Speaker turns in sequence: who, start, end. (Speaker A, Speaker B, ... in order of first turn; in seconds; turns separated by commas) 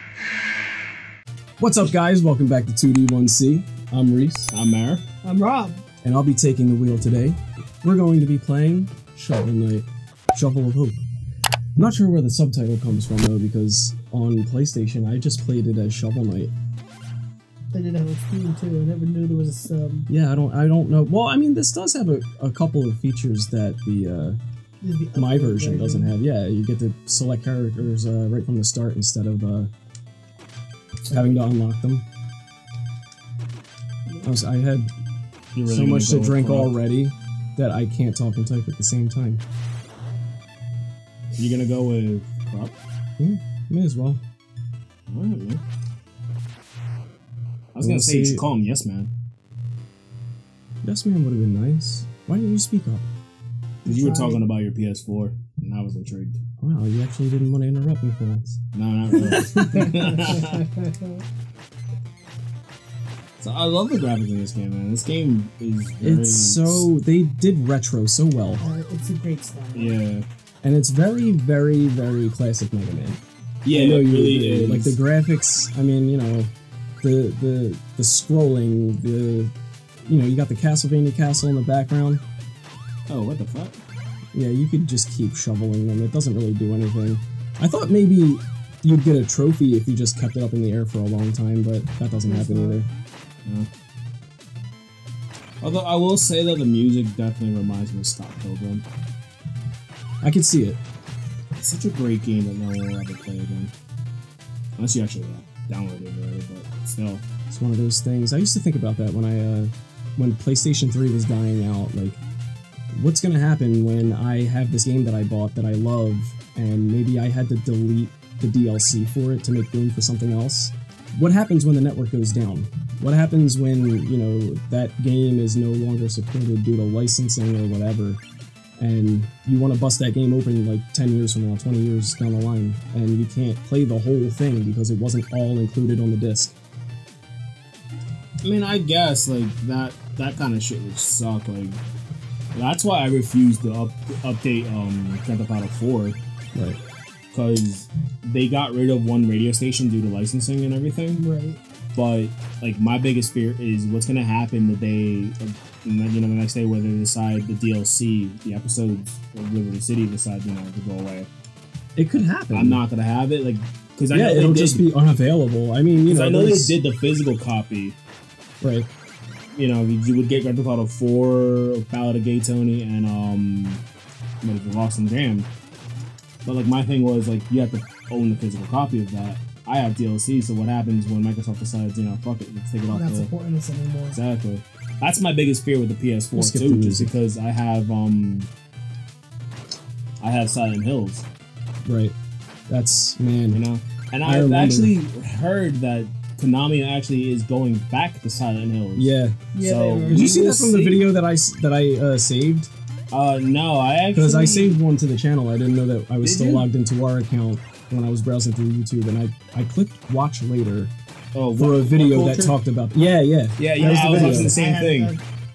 Speaker A: 1.6-4.5, Speaker B: 4.5-5.0, Speaker C: 5.2-5.8, Speaker A: 6.0-11.0, Speaker A: 11.8-16.5, Speaker C: 17.7-20.1, Speaker A: 20.1-24.4, Speaker C: 24.8-26.1, Speaker A: 25.1-29.7, Speaker A: 31.1-32.0, Speaker A: 34.2-34.9, Speaker B: 35.5-36.7, Speaker A: 35.7-39.4, Speaker B: 41.4-42.8, Speaker A: 43.2-44.2, Speaker B: 45.1-45.6, Speaker B: 47.8-49.1, Speaker A: 47.8-48.5, Speaker A: 50.8-53.1, Speaker B: 53.8-56.4, Speaker C: 53.9-54.4, Speaker A: 56.6-58.6, Speaker B: 58.7-60.6, Speaker A: 59.1-60.2, Speaker C: 60.4-61.1, Speaker B: 63.4-66.9, Speaker A: 66.0-68.6, Speaker C: 68.6-70.0, Speaker B: 69.7-70.2, Speaker A: 70.6-73.2, Speaker B: 73.7-75.0, Speaker A: 73.7-76.5, Speaker A: 77.0-79.5, Speaker A: 80.1-82.2, Speaker B: 83.1-83.8, Speaker A: 84.3-92.9, Speaker C: 92.3-92.8, Speaker B: 95.6-98.8, Speaker A: 100.2-100.8, Speaker B: 101.6-103.7, Speaker B: 104.8-107.2, Speaker A: 107.5-112.2, Speaker A: 112.9-128.2, Speaker A: 128.8-136.6, Speaker B: 138.4-141.8, Speaker B: 142.5-146.2, Speaker A: 146.5-146.8, Speaker B: 147.3-151.2, Speaker C: 151.2-151.6, Speaker B: 151.9-161.3, Speaker A: 162.0-162.8, Speaker B: 162.5-164.9, Speaker A: 164.1-166.8, Speaker B: 166.0-168.0, Speaker A: 168.6-168.9, Speaker B: 169.6-173.8, Speaker B: 174.4-175.5, Speaker B: 176.4-183.3, Speaker C: 182.9-184.2, Speaker B: 184.1-188.5, Speaker A: 186.3-187.1, Speaker B: 190.2-191.3, Speaker A: 191.8-192.2, Speaker A: 192.7-193.6, Speaker B: 193.5-201.1, Speaker A: 194.2-194.9, Speaker A: 199.0-199.4, Speaker C: 199.5-200.3, Speaker A: 200.1-202.7, Speaker B: 203.1-204.8, Speaker A: 204.1-210.9, Speaker B: 206.2-206.7, Speaker B: 211.3-212.6, Speaker A: 211.6-214.6, Speaker B: 213.6-215.2, Speaker C: 213.8-215.2